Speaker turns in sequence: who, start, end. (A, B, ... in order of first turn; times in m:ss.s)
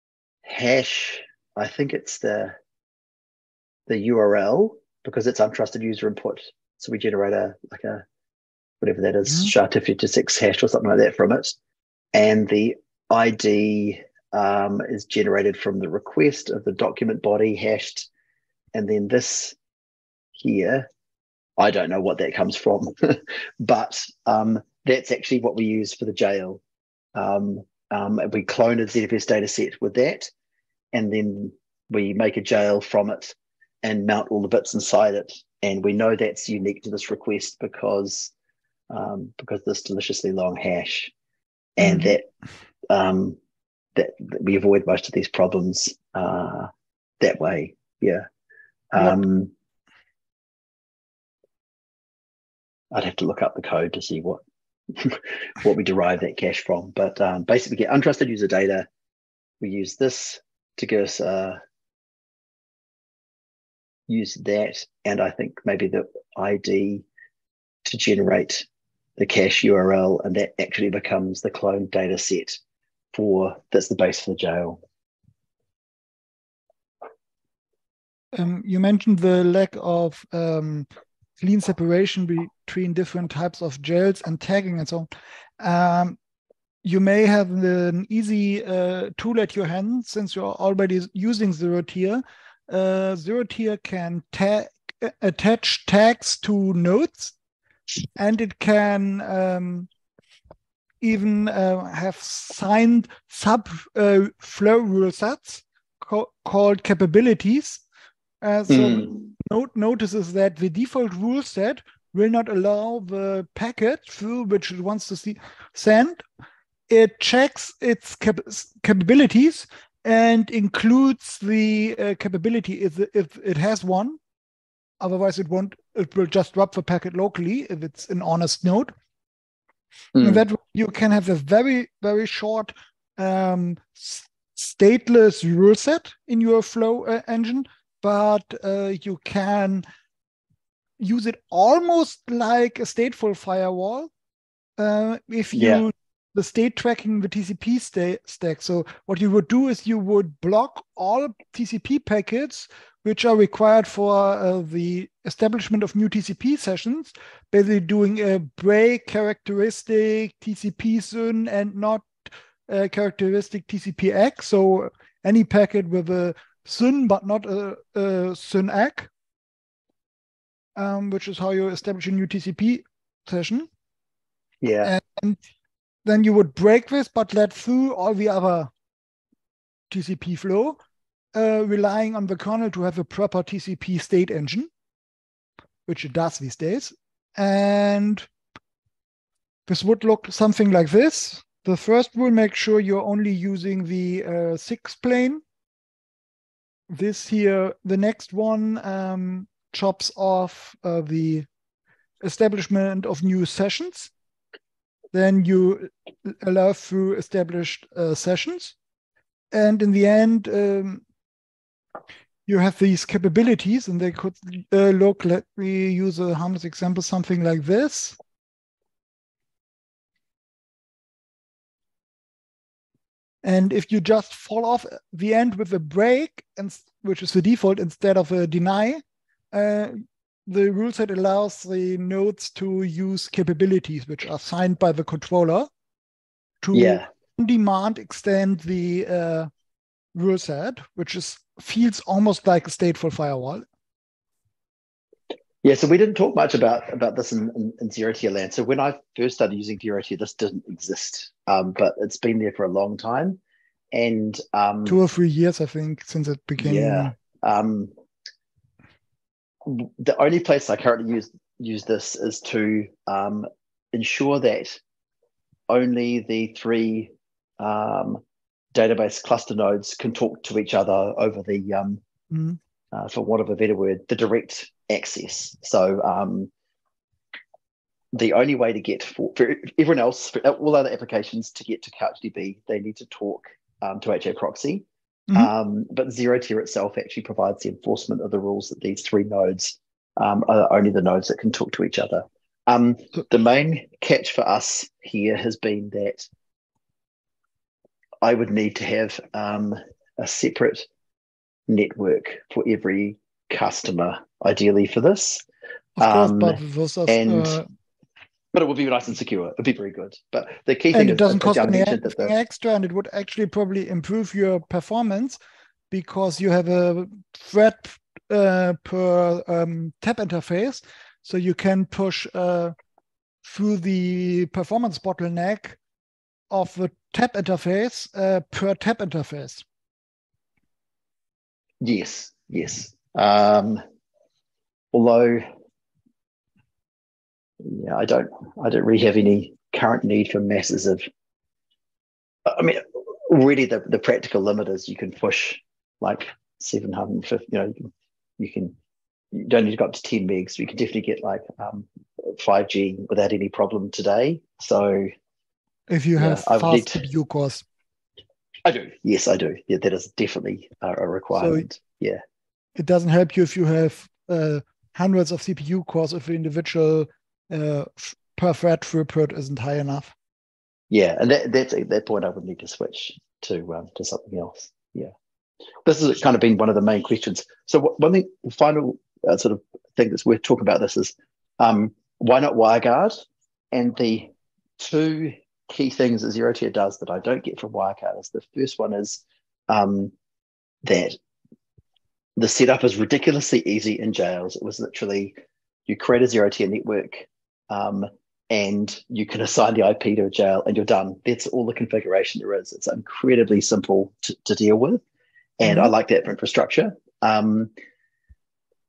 0:00.4-0:02.6 A
0:03.9-0:08.0 A
0:08.8-0:11.6 A
0:09.3-0:09.5 B
0:12.1-0:18.1 A
0:18.7-0:19.6 A
0:20.4-0:20.9 A
0:21.6-0:26.6 A
0:27.2-0:30.3 A
0:30.9-0:38.3 A
0:38.9-0:41.1 A
0:41.8-0:42.3 A
0:41.8-0:42.2 B
0:42.9-0:43.4 A
0:44.0-0:48.3 A
0:48.9-0:49.5 A
0:52.9-0:54.4 A
0:55.0-0:58.9 A
0:59.6-1:01.6 A
1:04.1-1:07.0 A
1:07.8-1:08.7 A
1:09.2-1:12.6 A
1:13.1-1:14.8 A
1:18.3-1:26.2 B
1:26.8-1:37.3 B
1:38.2-1:39.9 B
1:41.0-1:47.8 B
1:48.4-1:56.2 B
1:48.7-1:49.3 A
1:56.9-2:04.2 B
2:05.0-2:08.9 B
2:10.1-2:10.4 A
2:10.2-2:19.8 B
2:21.0-2:24.1 B
2:24.8-2:49.1 B
2:25.5-2:25.8 A
2:50.8-2:53.7 B
2:54.6-2:55.0 A
2:54.8-2:55.4 B
2:56.0-2:58.7 B
2:59.9-3:00.8 B
3:01.3-3:04.7 B
3:05.9-3:08.3 B
3:09.7-3:15.4 B
3:16.9-3:21.5 B
3:22.2-3:24.1 B
3:25.1-3:28.8 B
3:29.5-3:31.0 B
3:32.5-3:38.2 B
3:43.4-3:55.7 B
3:56.6-3:59.5 B
3:56.7-3:57.1 A
4:00.1-4:03.6 B
4:05.6-4:13.4 A
4:13.9-4:15.0 A
4:14.9-4:17.1 B
4:16.6-4:17.9 A
4:19.6-4:24.8 A
4:25.7-4:28.2 A
4:28.8-4:32.0 A
4:32.3-4:32.6 B
4:32.9-4:36.5 A
4:38.1-4:56.3 A
4:58.2-5:00.9 A
5:01.7-5:05.4 A
5:06.0-5:07.7 B
5:06.0-5:07.6 A
5:08.5-5:12.3 A
5:10.9-5:15.4 B
5:15.9-5:22.8 B
5:23.4-5:25.8 B
5:26.5-5:29.6 B
5:31.8-5:33.8 A
5:34.9-5:35.4 A
5:37.6-5:41.1 A
5:42.5-5:48.8 A
5:49.3-5:55.1 A
5:55.9-5:57.6 B
5:56.2-5:57.0 A
5:58.6-6:02.2 A
6:01.3-6:01.6 B
6:02.8-6:10.1 B
6:10.9-6:15.1 A
6:15.8-6:23.2 A
6:23.7-6:30.1 A
6:30.8-6:31.2 A
6:32.4-6:35.3 A
6:35.9-6:45.0 A
6:45.6-6:47.7 A
6:45.6-6:45.9 B